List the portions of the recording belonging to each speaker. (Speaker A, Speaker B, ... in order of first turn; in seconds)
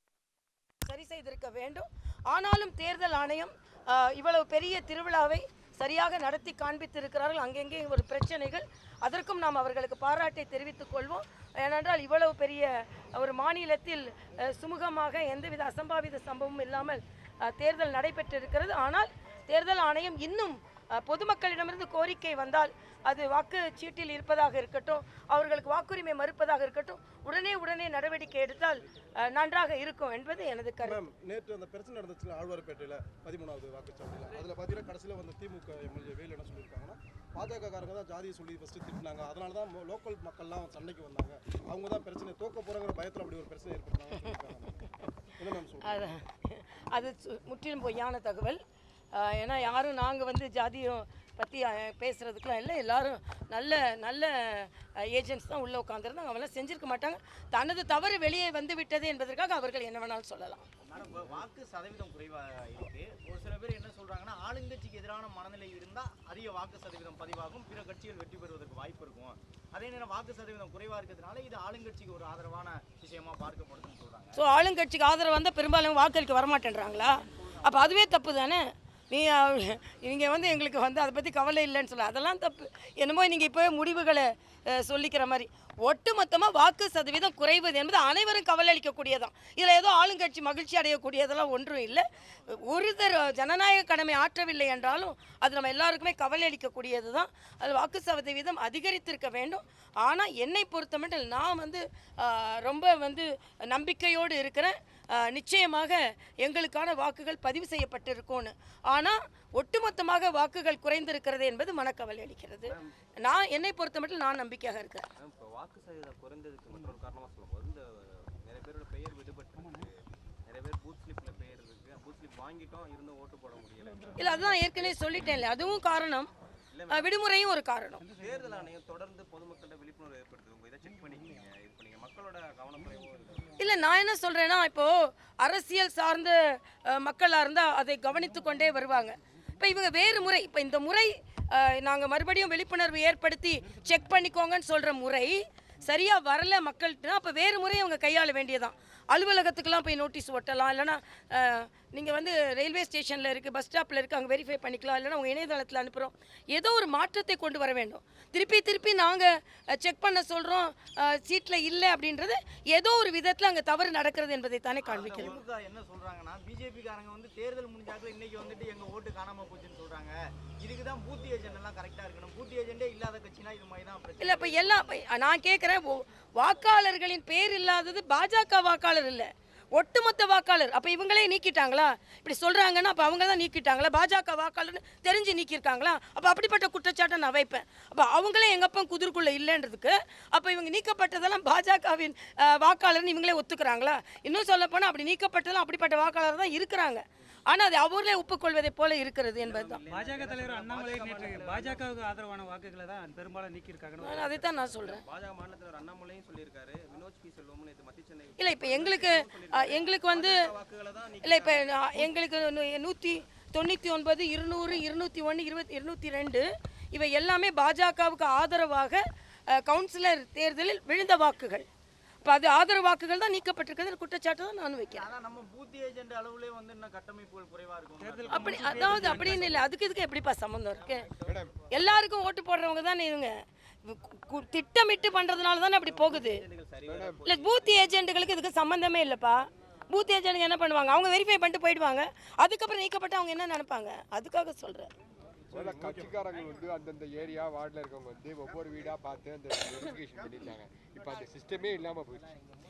Speaker A: 0.8-31.0, 45.8-48.6, 49.1-60.7, 74.4-115.1, 124.2-126.3, 126.9-128.0, 133.6-165.4, 174.2-199.8, 204.0-205.0, 208.4-210.4, 211.2-221.7, 222.2-225.1, 228.3-231.1, 231.7-236.4, 237.2-244.9
Speaker B: 30.8-46.2, 245.5-246.2
Speaker C: 60.9-74.4, 164.8-174.8, 225.0-228.9
Speaker D: 61.0-61.5, 115.2-125.4, 126.7-127.2, 128.1-133.6, 199.4-201.9, 204.2-212.0, 228.3-229.4, 235.8-237.8
Speaker E: 119.6-119.8, 128.0-128.5, 199.9-204.3, 228.0-229.7
Speaker F: 231.2-231.5, 236.8-237.2, 245.5-252.4